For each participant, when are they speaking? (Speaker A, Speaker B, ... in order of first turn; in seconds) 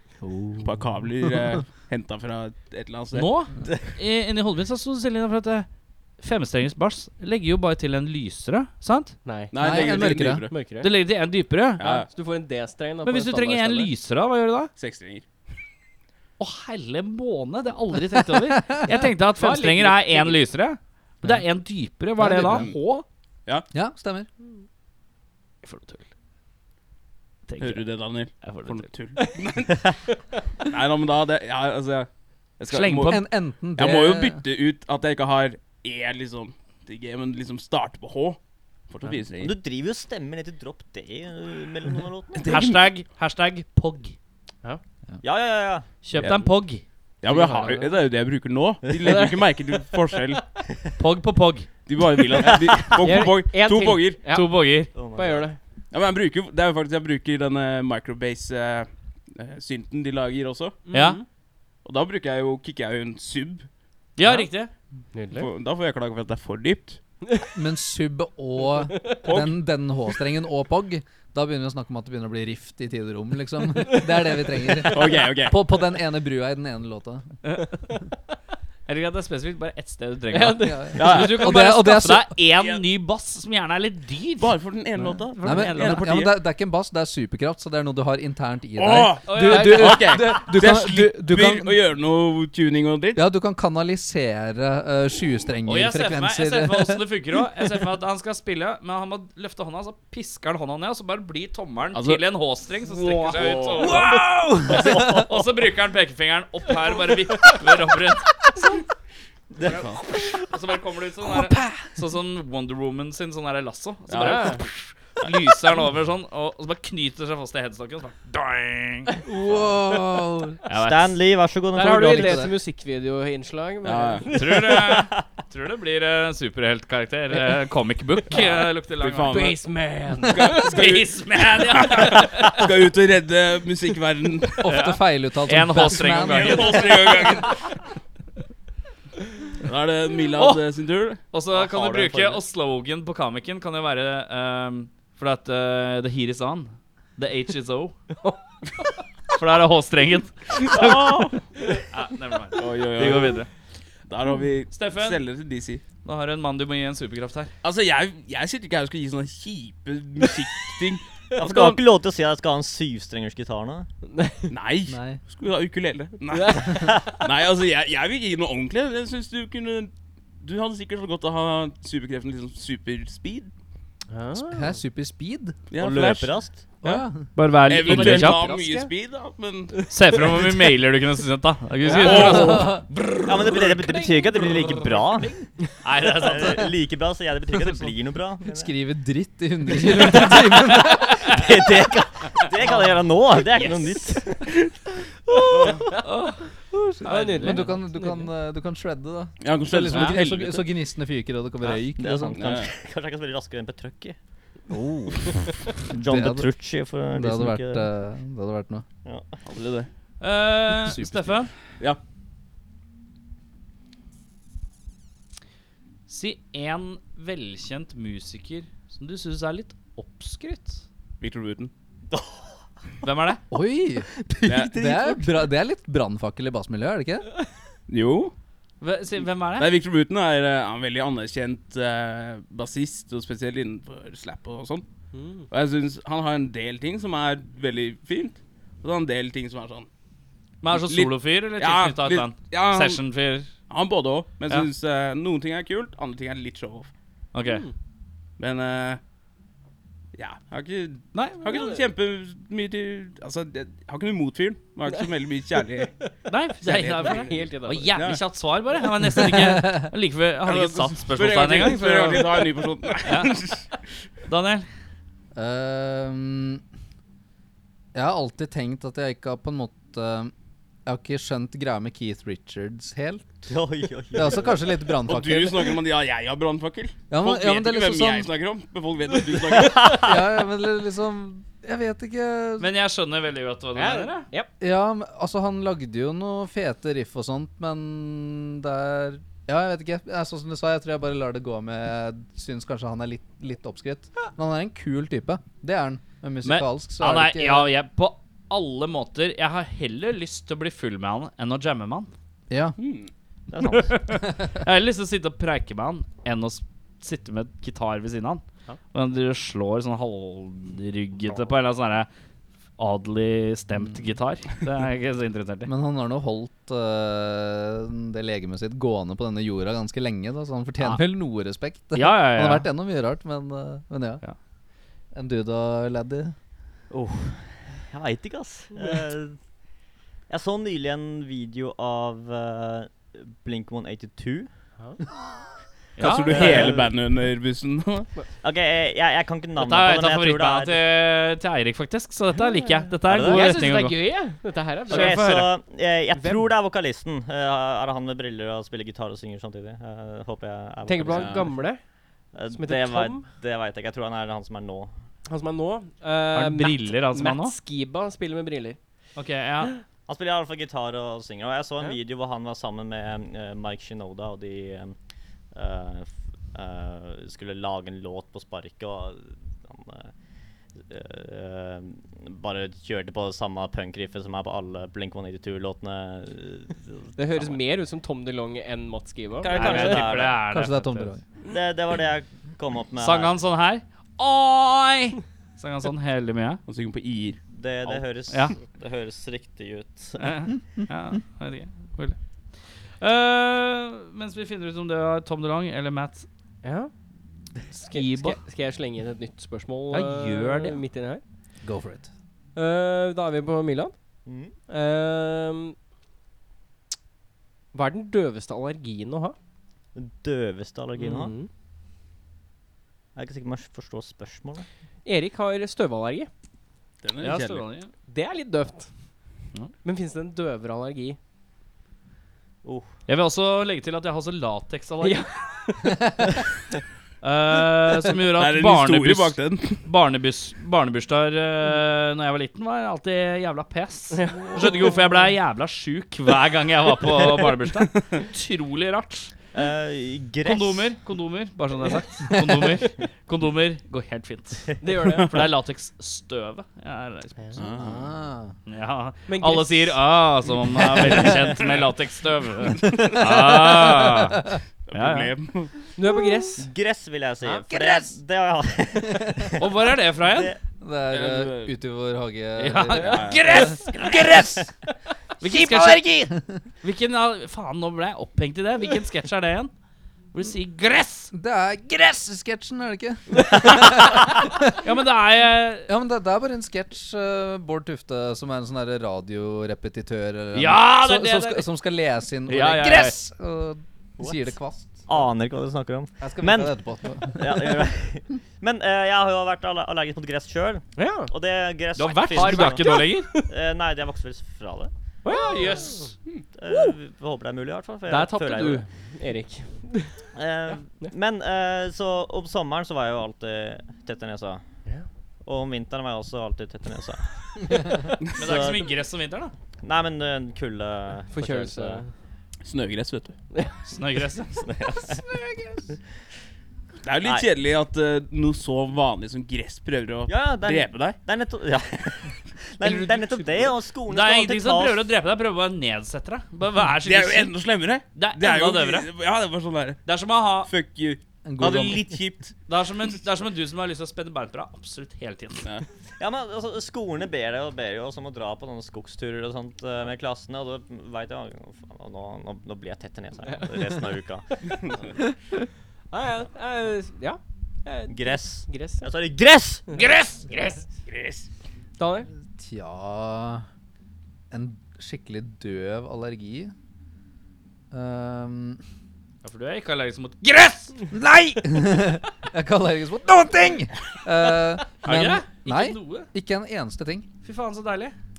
Speaker A: 0.2-1.0, 9.6-10.5, 18.4-19.0, 22.2-22.7, 23.7-24.3, 33.0-34.4, 67.5-77.3, 80.6-82.4, 85.4-91.8, 93.2-97.0, 103.8-105.3, 111.3-112.0, 119.2-120.6, 122.1-122.5, 134.6-137.0, 164.9-165.2, 174.4-175.7, 176.8-177.3, 182.0-182.9, 188.5-191.4, 196.7-202.4, 204.7-206.5, 207.1-208.9, 210.8-211.5, 223.5-227.3, 259.3-259.9, 265.4-266.6, 267.9-270.3, 270.9-273.5, 274.1-275.7, 277.1-278.3, 279.9-282.7, 284.6-297.7, 302.5-302.8, 315.7-324.2, 325.1-326.4, 380.4-381.2, 401.6-402.1, 442.3-442.6, 447.8-448.6, 452.8-454.6, 457.7-458.1, 459.2-459.5, 460.8-464.7, 465.4-466.5, 471.3-474.9, 475.9-485.1, 486.2-487.9, 531.4-532.1, 552.5-553.6, 554.5-556.7, 557.9-558.8, 561.1-567.3
Speaker B: 0.6-3.4, 9.5-10.6, 11.8-12.1, 14.8-15.2, 27.6-29.9, 30.7-39.5, 42.4-42.8, 46.2-46.5, 47.2-50.5, 51.9-54.2, 55.9-60.8, 61.8-63.7, 65.3-67.0, 69.2-69.6, 74.9-75.7, 81.0-81.5, 82.6-82.8, 84.4-86.3, 88.8-93.2, 101.9-102.2, 102.8-104.2, 109.7-110.0, 114.1-114.5, 123.8-124.3, 128.3-134.7, 136.1-137.7, 139.6-141.2, 150.6-151.4, 152.5-153.4, 154.1-155.8, 157.6-161.8, 164.5-173.5, 175.7-177.0, 177.7-180.4, 181.9-182.8, 199.4-200.7, 202.3-202.7, 209.5-209.9, 221.2-221.7, 224.5-225.2, 227.9-228.3, 229.5-234.9, 235.5-239.9, 240.7-243.0, 243.7-246.9, 248.4-249.0, 250.2-255.9, 256.6-258.2, 260.4-263.7, 275.0-280.0, 302.8-303.1, 336.0-338.1, 351.1-351.5, 386.7-387.9, 417.0-417.7, 428.3-429.9, 447.6-448.1, 454.9-455.8, 461.1-461.7, 462.9-463.4, 512.6-513.4, 517.0-521.2, 527.0-530.0, 530.6-532.5, 551.1-551.5
Speaker C: 3.1-5.7, 6.2-9.2, 10.8-12.0, 13.0-14.7, 16.4-23.1, 25.6-26.1, 27.5-28.9, 32.7-33.2, 42.4-44.2, 46.0-46.8, 51.0-51.7, 54.3-54.9, 60.9-61.2, 64.2-64.7, 78.9-84.6, 85.3-86.1, 89.3-90.4, 95.7-104.3, 105.2-108.5, 109.7-119.1, 120.7-121.2, 124.3-129.5, 130.5-132.7, 134.7-137.5, 140.3-140.6, 141.3-148.0, 149.3-151.3, 151.9-153.5, 154.7-155.2, 156.0-157.5, 177.3-178.4, 179.9-182.8, 184.4-185.3, 185.8-186.7, 190.1-191.4, 193.5-194.0, 196.0-196.5, 197.0-197.8, 199.9-200.2, 210.2-211.5, 216.1-220.8, 223.0-223.4, 228.8-229.7, 240.6-243.5, 247.3-247.7, 251.1-251.7, 256.3-262.5, 263.1-263.5, 264.3-264.7, 282.6-284.3, 296.4-302.1, 303.6-312.1, 312.8-315.7, 321.9-322.7, 336.0-336.7, 339.6-344.0, 344.9-345.5, 356.3-357.6, 359.2-359.7, 379.5-381.1, 383.0-386.6, 388.3-388.6, 390.2-392.2, 393.0-396.3, 397.7-398.4, 399.9-400.8, 417.2-417.9, 423.1-425.3, 427.2-439.3, 440.4-447.6, 448.7-455.3, 459.6-460.5, 462.6-464.6, 465.4-469.7, 470.3-471.3, 474.8-475.9, 480.5-481.7, 482.5-483.2, 491.9-493.3, 495.3-496.1, 508.4-509.5, 513.9-514.6, 524.1-527.5, 528.1-529.1, 530.1-530.7, 532.7-535.6, 550.0-550.6, 559.4-561.0, 565.0-566.3, 567.4-568.1
Speaker D: 9.2-10.9, 11.8-13.9, 19.4-20.4, 47.2-48.0, 49.1-49.4, 53.0-55.6, 60.9-61.2, 65.1-65.5, 73.9-74.9, 80.3-81.2, 114.2-114.6, 121.7-124.8, 129.3-130.8, 164.1-164.5, 166.3-166.9, 174.1-174.8, 177.8-178.9, 181.9-182.3, 195.7-196.1, 197.0-198.3, 235.1-235.5, 247.4-247.7, 256.7-258.0, 283.8-284.5, 342.5-345.2, 346.1-346.5, 350.9-351.8, 352.5-353.2, 355.3-358.8, 377.2-380.0, 396.6-396.9, 397.9-401.2, 402.6-404.0, 404.7-405.8, 407.7-409.4, 411.0-411.5, 415.1-416.3, 418.1-418.9, 419.8-421.2, 425.0-426.0, 434.1-434.9, 444.8-445.3, 449.3-450.1, 450.8-451.3, 455.9-456.7, 491.0-491.3, 492.3-493.5, 495.2-496.1, 496.7-497.0, 498.1-500.2, 511.3-512.1, 522.8-523.7, 546.1-549.1, 552.0-552.3
Speaker E: 39.4-42.6, 45.2-46.0, 52.5-53.0, 54.9-55.5, 104.5-105.4, 109.6-109.8, 120.7-122.5, 124.8-125.2, 141.5-142.4, 161.4-163.9, 175.8-176.8, 183.2-188.7, 189.9-194.6, 201.8-204.2, 205.3-207.9, 209.1-209.4, 222.1-222.4, 273.5-274.8, 303.5-304.1, 326.9-329.4, 330.3-334.6, 336.1-336.9, 338.3-340.8, 343.1-343.7, 344.9-351.6, 352.3-354.9, 360.1-365.0, 365.5-370.1, 370.8-377.6, 379.4-380.5, 381.4-383.4, 387.5-390.4, 404.3-404.5, 409.9-411.4, 413.1-414.6, 439.5-440.9, 456.6-460.6, 463.9-464.2, 484.2-484.5, 485.1-494.9, 496.6-498.9, 500.3-504.6, 505.4-508.9, 509.8-512.0, 514.5-515.2, 520.3-525.1, 536.2-544.8, 548.1-549.9